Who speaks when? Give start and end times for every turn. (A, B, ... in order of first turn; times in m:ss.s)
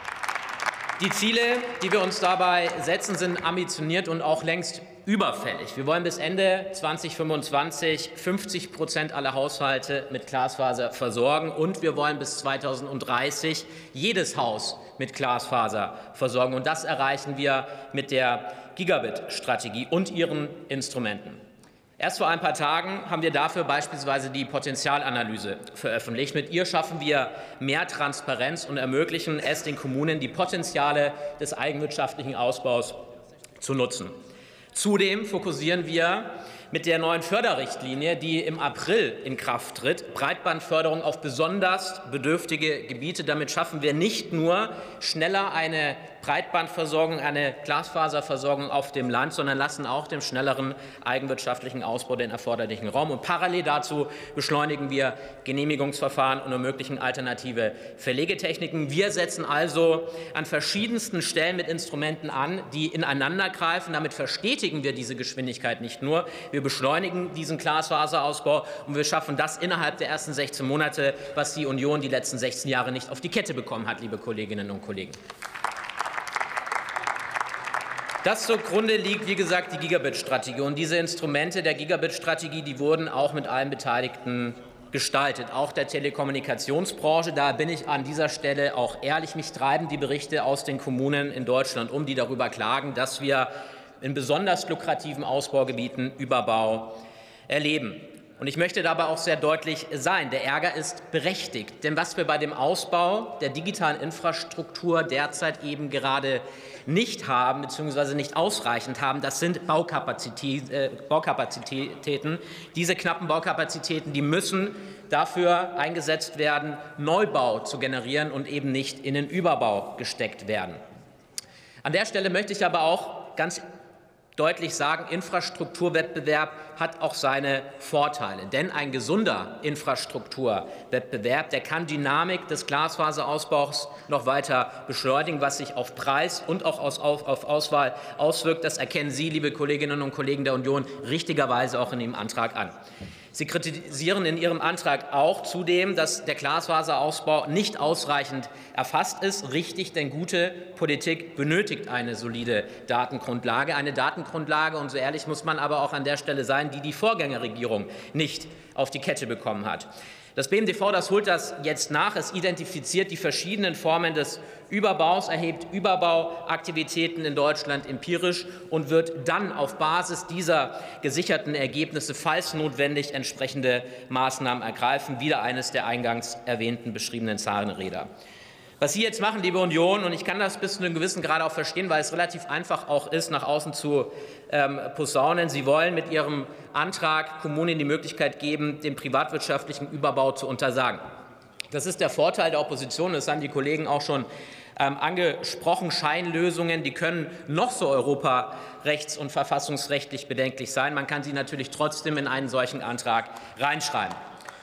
0:01.0-0:21.4 A
0:22.0-0:33.0 A
0:33.6-0:34.1 A
0:34.7-1:15.2 A
1:18.2-2:00.8 A
2:01.8-2:03.6 A
2:04.4-2:22.7 A
2:23.3-2:58.1 A
2:58.8-3:11.0 A
3:11.7-3:24.2 A